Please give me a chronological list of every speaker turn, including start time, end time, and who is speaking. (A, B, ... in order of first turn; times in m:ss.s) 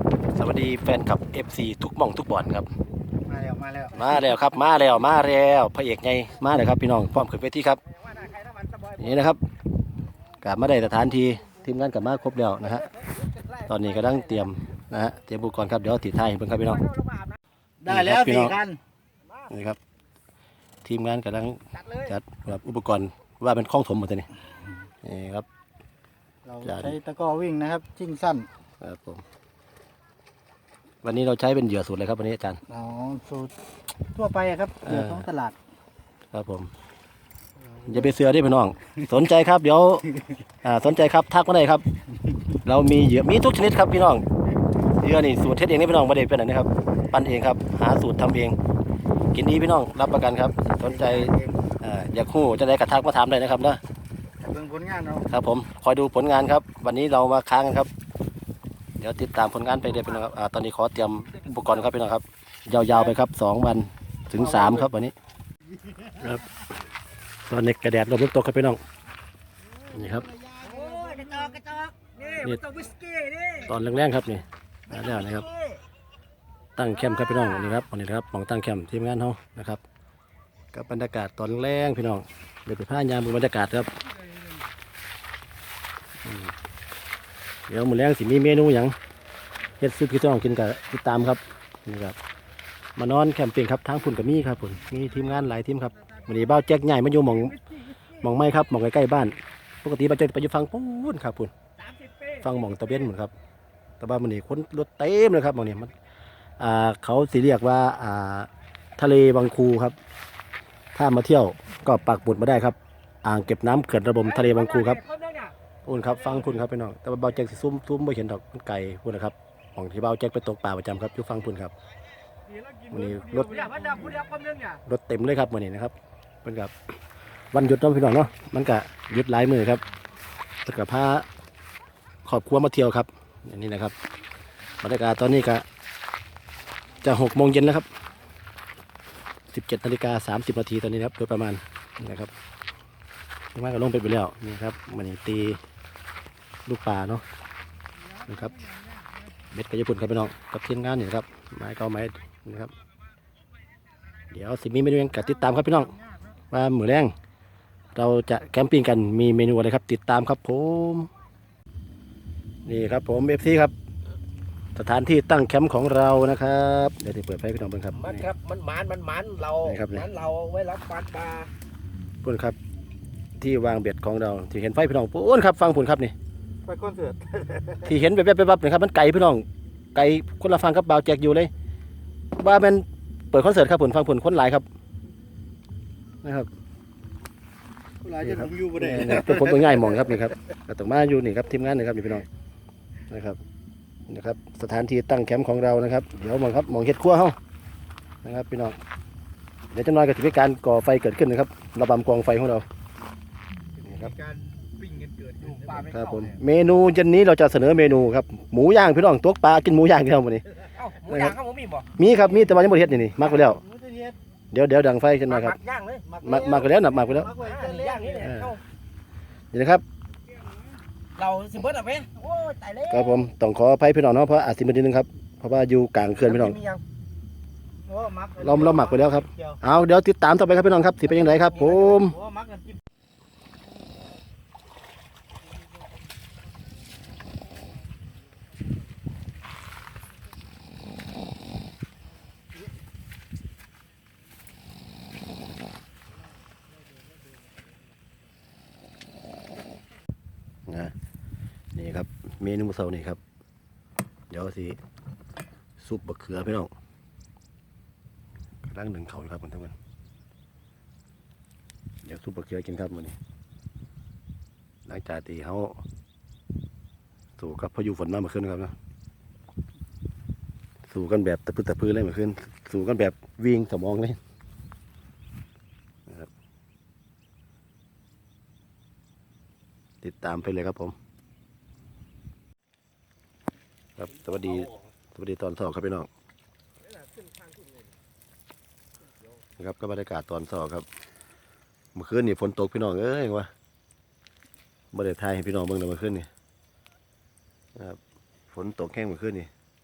0:00.3-0:02.7 A
0:03.2-0:04.0 B
0:03.9-0:07.8 A
0:08.1-0:09.0 C
0:08.9-0:09.4 A
0:10.4-0:12.9 A
0:13.6-0:16.9 A
0:17.0-0:17.3 C
0:17.9-0:18.6 A
0:17.9-0:18.8 B
0:19.5-0:19.8 A
0:20.8-0:24.3 A
0:25.0-0:25.5 A
0:26.5-0:28.5 B
0:26.6-0:27.0 A
0:28.8-0:29.2 A
0:31.0-0:32.6 A
0:32.7-0:33.5 B
0:34.2-0:35.6 B
0:34.8-0:35.3 A
0:36.3-0:36.7 A
0:37.7-0:41.9 A
0:42.5-0:44.2 A
0:45.0-0:48.6 A
0:49.3-0:53.8 A
0:54.4-0:55.3 B
0:55.2-0:57.9 A
0:59.0-1:05.2 A
1:06.1-1:06.6 A
1:07.5-1:08.8 A
1:09.9-1:10.4 A
1:10.5-1:11.2 B
1:10.6-1:13.7 C
1:12.4-1:12.8 A
1:13.6-1:15.5 A
1:15.4-1:15.8 C
1:16.8-1:19.8 A
1:20.7-1:24.0 A
1:26.2-1:26.5 A
1:27.7-1:29.0 A
1:29.8-1:32.2 A
1:33.0-1:41.5 A
1:41.9-1:42.2 C
1:42.3-1:43.3 A
1:44.0-1:45.9 A
1:46.6-1:50.0 A
1:50.9-1:55.0 A
1:54.5-1:55.5 C
1:55.8-2:01.7 A
2:02.9-2:04.1 A
2:03.5-2:04.8 C
2:04.8-2:06.7 A
2:07.5-2:09.8 A
2:10.6-2:11.3 A
2:12.2-2:14.0 A
2:14.8-2:15.6 A
2:17.0-2:17.9 A
2:19.5-2:22.3 A
2:23.5-2:25.6 A
2:26.7-2:27.2 A
2:28.2-2:28.7 A
2:29.5-2:32.7 A
2:34.3-2:36.0 A
2:36.5-2:37.1 A
2:38.0-2:41.1 A
2:42.6-2:43.7 A
2:44.8-2:48.3 A
2:47.9-2:51.5 C
2:49.6-2:50.1 A
2:52.2-2:52.6 A
2:53.4-2:56.1 A
2:56.7-2:57.8 C
2:57.8-3:01.5 A
3:02.4-3:04.7 A
3:06.2-3:06.5 A
3:08.1-3:12.2 A
3:13.1-3:13.4 A
3:14.1-3:17.4 A
3:18.2-3:18.8 A
3:19.7-3:22.7 A
3:23.8-3:24.1 A
3:24.0-3:25.8 B
3:25.4-3:26.4 C
3:25.8-3:31.4 A
3:30.6-3:31.9 C
3:32.0-3:33.6 A
3:33.7-3:34.1 B
3:34.5-3:35.6 A
3:35.3-3:36.6 C
3:36.1-3:38.2 B
3:36.2-3:37.4 A
3:37.3-3:38.6 C
3:38.2-3:38.6 A
3:39.5-3:39.8 A
3:41.2-3:43.2 C
3:42.9-3:46.6 A
3:46.2-3:46.8 C
3:47.9-3:49.0 C
3:47.9-3:48.5 B
3:48.4-3:52.2 A
3:49.0-3:49.6 B
3:51.2-3:52.8 C
4:10.7-4:11.0 A
4:11.8-4:13.2 A
4:14.3-4:14.8 A
4:15.8-4:16.7 A
4:18.6-4:19.7 A
4:22.0-4:23.2 A
4:24.9-4:25.8 A
4:27.4-4:28.7 A
4:30.9-4:34.2 A
4:40.0-4:41.0 A
4:44.0-4:46.1 A
4:49.6-4:50.9 A
4:52.0-4:53.5 A
4:54.9-4:56.3 A
4:58.5-4:59.5 A